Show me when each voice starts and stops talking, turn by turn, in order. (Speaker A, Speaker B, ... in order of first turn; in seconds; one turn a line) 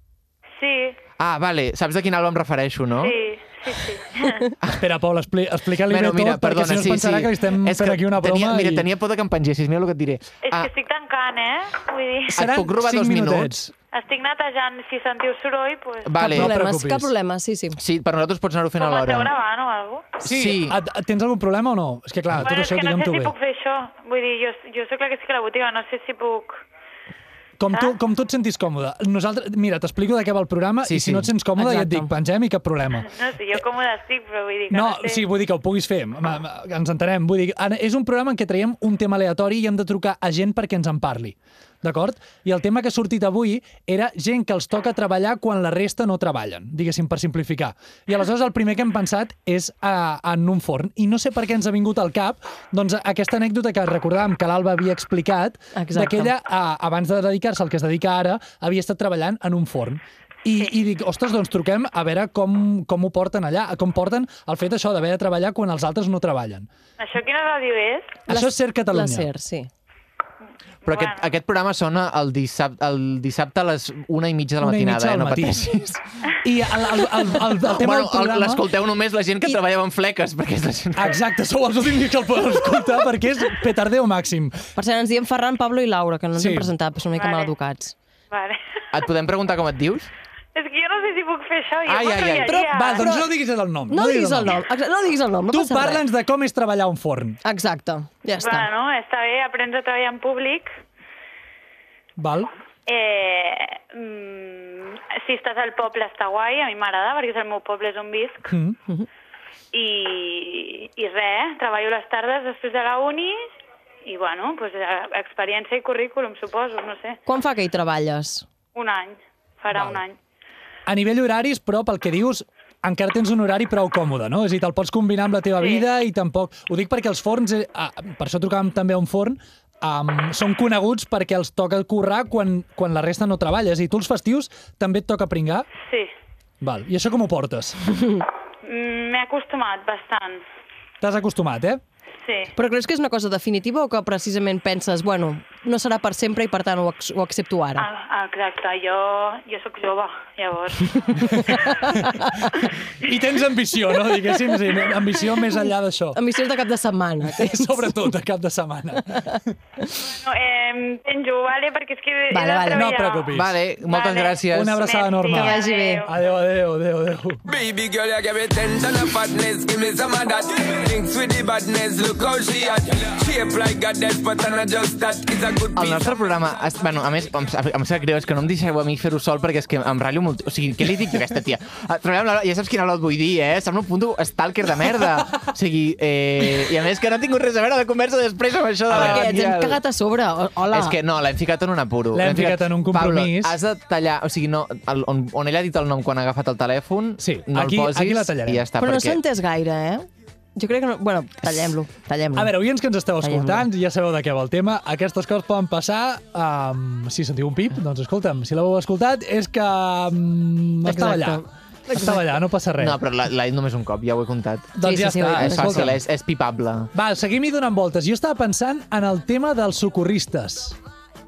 Speaker A: 0.6-0.9
Speaker B: 1.2-3.1
Speaker A: 3.0-4.5
Speaker C: 4.8-8.8
Speaker B: 5.9-10.7
Speaker A: 10.4-12.4
Speaker C: 12.3-13.7
Speaker B: 12.3-13.5
Speaker A: 13.9-16.3
Speaker B: 16.0-16.5
Speaker C: 16.2-17.1
Speaker D: 16.3-17.8
Speaker B: 17.8-19.3
Speaker A: 18.8-20.2
Speaker B: 20.2-20.8
Speaker C: 20.2-23.3
Speaker A: 22.4-26.6
Speaker C: 27.6-33.1
Speaker A: 27.7-28.0
Speaker B: 30.8-31.3
Speaker D: 31.6-32.1
Speaker A: 33.0-35.3
Speaker C: 34.7-66.7
Speaker D: 55.7-56.3
Speaker A: 67.0-68.2
Speaker C: 68.3-69.3
Speaker D: 68.3-69.7
Speaker A: 70.8-71.2
Speaker B: 70.8-76.0
Speaker C: 74.6-78.6
Speaker B: 77.5-81.2
Speaker C: 81.0-84.6
Speaker D: 84.8-88.0
Speaker C: 86.3-86.7
Speaker A: 87.1-87.5
Speaker A: 88.3-88.6
Speaker B: 88.9-90.1
Speaker A: 90.5-93.1
Speaker B: 91.8-92.6
Speaker D: 92.4-93.3
Speaker C: 92.7-94.6
Speaker D: 93.9-96.0
Speaker C: 95.5-97.4
Speaker D: 97.4-98.7
Speaker A: 98.4-100.7
Speaker C: 102.2-102.5
Speaker A: 102.9-108.5
Speaker C: 108.5-108.8
Speaker A: 109.7-113.4
Speaker A: 114.0-117.2
Speaker D: 117.2-118.5
Speaker A: 118.7-120.2
Speaker C: 119.7-120.0
Speaker C: 120.9-135.7
Speaker A: 125.6-125.9
Speaker A: 135.8-136.1
Speaker C: 136.6-137.8
Speaker A: 138.6-140.4
Speaker C: 141.0-141.8
Speaker A: 142.2-142.5
Speaker D: 142.5-147.8
Speaker A: 147.8-151.6
Speaker C: 151.2-156.2
Speaker D: 151.3-152.5
Speaker D: 156.1-158.1
Speaker C: 157.3-159.4
Speaker D: 159.1-159.4
Speaker A: 160.2-166.1
Speaker D: 162.3-162.9
Speaker C: 162.7-163.5
Speaker B: 163.3-164.8
Speaker C: 164.5-167.4
Speaker D: 165.3-166.0
Speaker E: 167.4-176.1
Speaker B: 175.7-189.8
Speaker D: 188.9-191.0
Speaker C: 188.9-189.2
Speaker B: 190.7-199.2
Speaker C: 192.1-193.6
Speaker C: 197.2-198.6
Speaker D: 198.8-202.5
Speaker C: 202.3-213.0
Speaker D: 203.2-203.7
Speaker D: 210.8-212.2
Speaker B: 212.8-214.8
Speaker C: 214.8-216.0
Speaker D: 214.8-215.9
Speaker B: 215.4-216.9
Speaker C: 216.9-220.8